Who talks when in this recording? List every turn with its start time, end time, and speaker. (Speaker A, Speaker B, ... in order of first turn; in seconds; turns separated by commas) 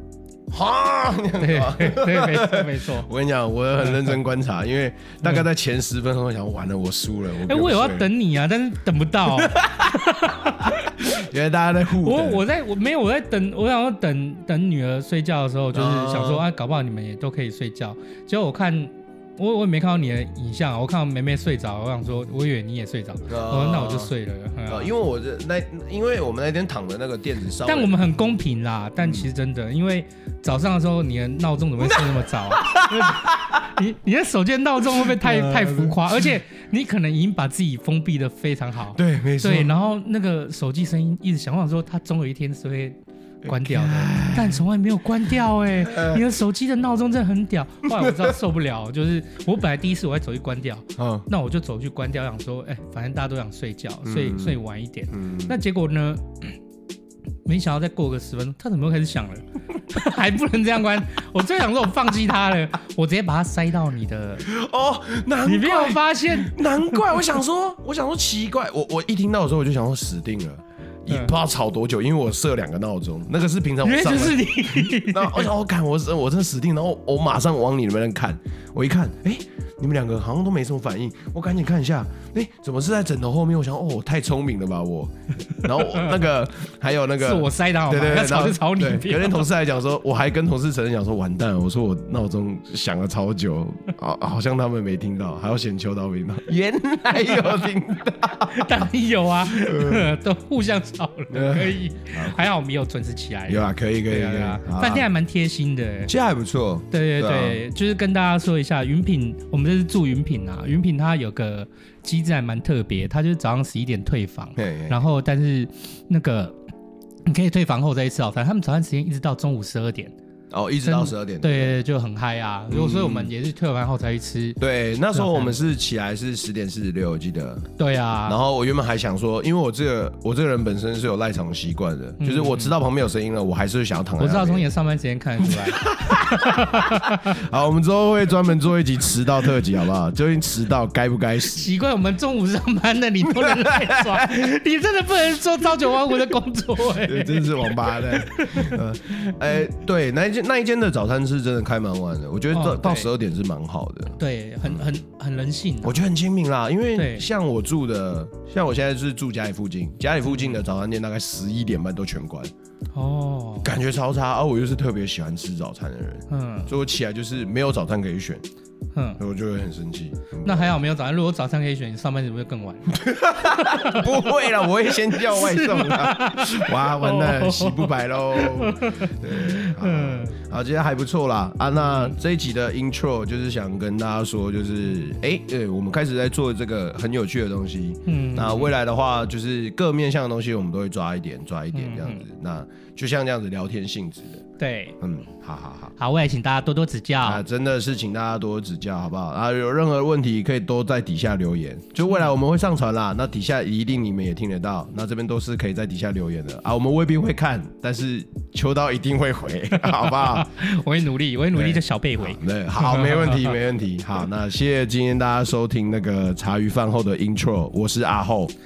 Speaker A: 0.5-8.1, Speaker B: 1.4-3.1, Speaker B: 3.8-4.1, Speaker B: 7.4-10.9, Speaker A: 9.4-10.0, Speaker A: 10.7-12.4, Speaker B: 11.9-24.9, Speaker A: 15.7-16.4, Speaker A: 23.3-24.1, Speaker A: 24.7-28.0, Speaker B: 27.6-56.6, Speaker A: 29.0-29.3, Speaker A: 32.6-33.5, Speaker A: 35.1-36.3, Speaker A: 38.9-39.8, Speaker A: 43.4-44.6, Speaker A: 45.8-46.2, Speaker A: 47.9-48.1, Speaker A: 51.0-51.3, Speaker A: 54.0-54.6, Speaker A: 55.1-55.5, Speaker B: 57.5-64.4, Speaker A: 64.4-98.6, Speaker B: 65.4-67.2, Speaker B: 73.8-75.5, Speaker B: 87.2-89.5, Speaker B: 97.1-97.5, Speaker B: 98.4-106.1, Speaker A: 99.5-100.1, Speaker A: 101.3-102.4, Speaker A: 103.5-105.1, Speaker A: 106.1-107.6, Speaker B: 106.9-116.6, Speaker A: 114.5-115.0, Speaker B: 117.2-120.1, Speaker A: 120.5-121.8, Speaker B: 120.8-124.6, Speaker A: 122.7-123.3, Speaker A: 124.6-127.7, Speaker B: 125.1-125.5, Speaker B: 127.8-128.4, Speaker A: 128.2-134.7, Speaker B: 132.2-132.7, Speaker B: 134.2-137.3, Speaker A: 135.7-141.7, Speaker B: 141.5-149.3, Speaker A: 143.6-144.0, Speaker A: 146.9-154.8, Speaker B: 152.5-153.1, Speaker B: 154.2-156.0, Speaker A: 155.8-162.5, Speaker B: 156.9-157.2, Speaker B: 160.2-160.6, Speaker B: 162.9-163.7, Speaker A: 163.6-168.4, Speaker B: 166.3-166.7, Speaker B: 168.9-169.2, Speaker A: 169.2-170.7, Speaker B: 170.4-174.3, Speaker A: 172.9-194.4, Speaker B: 175.3-180.3, Speaker B: 188.1-188.7, Speaker B: 191.7-192.2, Speaker B: 194.6-195.0, Speaker A: 195.0-195.9, Speaker B: 196.0-197.4, Speaker A: 197.2-210.5, Speaker B: 209.8-213.6, Speaker A: 211.5-218.5